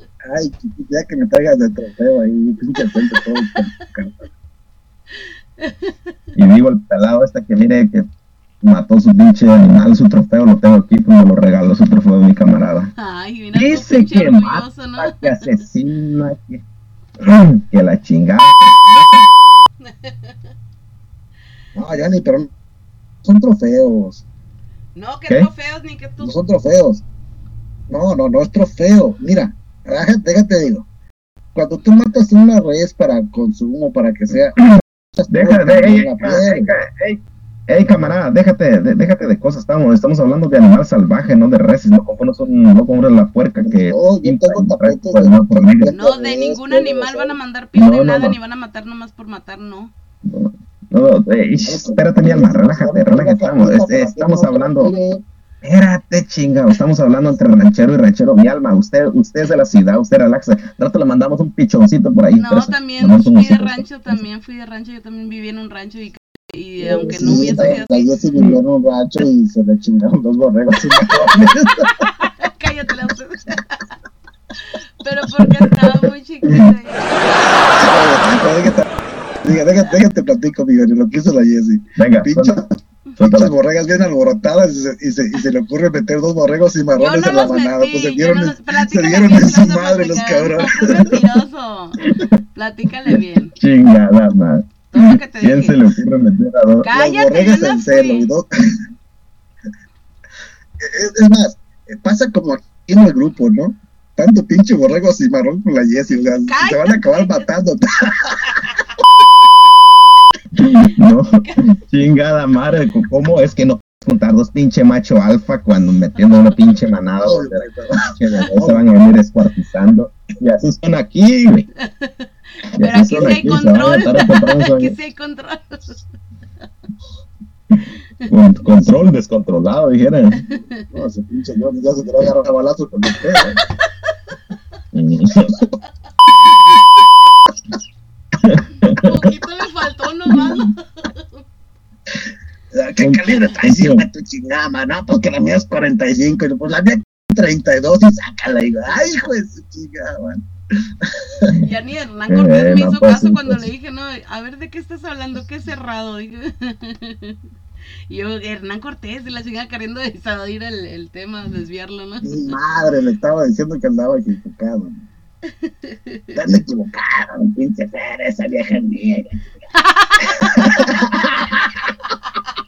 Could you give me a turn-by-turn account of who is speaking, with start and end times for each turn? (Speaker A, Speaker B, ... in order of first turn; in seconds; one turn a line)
Speaker A: 0.3-4.2
Speaker B: 5.6-6.1
Speaker C: 6.3-8.1
Speaker C: 8.6-12.9
Speaker B: 13.0-15.3
Speaker C: 13.5-16.6
Speaker C: 17.2-19.2
Speaker B: 19.8-20.4
Speaker A: 21.7-22.5
Speaker A: 23.2-24.2
Speaker B: 24.9-26.4
Speaker A: 26.2-27.0
Speaker A: 27.9-30.8
Speaker A: 31.5-36.7
Speaker C: 35.3-45.9
Speaker A: 43.6-47.4
Speaker B: 45.9-49.9
Speaker C: 47.7-48.4
Speaker C: 50.2-54.9
Speaker A: 51.6-55.2
Speaker C: 55.6-64.2
Speaker B: 62.3-68.1
Speaker A: 66.8-71.9
Speaker B: 72.0-73.9
Speaker B: 74.6-77.8
Speaker C: 75.5-76.0
Speaker A: 77.8-78.8
Speaker A: 79.4-82.6
Speaker C: 82.0-82.5
Speaker C: 83.2-83.5
Speaker A: 83.2-91.2
Speaker B: 87.0-92.0
Speaker C: 92.0-92.3
Speaker B: 92.5-93.5
Speaker C: 93.6-96.9
Speaker B: 94.9-95.8
Speaker B: 96.8-98.3
Speaker A: 96.9-98.5
Speaker A: 100.8-108.7
Speaker B: 106.5-107.4
Speaker B: 108.4-108.9
Speaker C: 110.6-121.7
Speaker B: 116.2-116.6
Speaker A: 117.2-118.9
Speaker B: 121.8-126.0
Speaker C: 122.7-124.9
Speaker C: 128.3-130.4
Speaker A: 128.6-129.0
Speaker B: 130.5-130.8
Speaker A: 130.9-133.6
Speaker C: 134.9-135.6
Speaker C: 138.4-139.1
Speaker B: 139.0-141.4
Speaker A: 142.7-150.4
Speaker C: 143.0-144.0
Speaker A: 151.0-151.6
Speaker B: 151.6-157.4
Speaker C: 152.3-153.7
Speaker B: 158.1-162.5
Speaker A: 162.2-164.9
Speaker B: 165.6-166.4
Speaker A: 166.3-169.4
Speaker B: 169.8-170.4
Speaker A: 170.4-171.8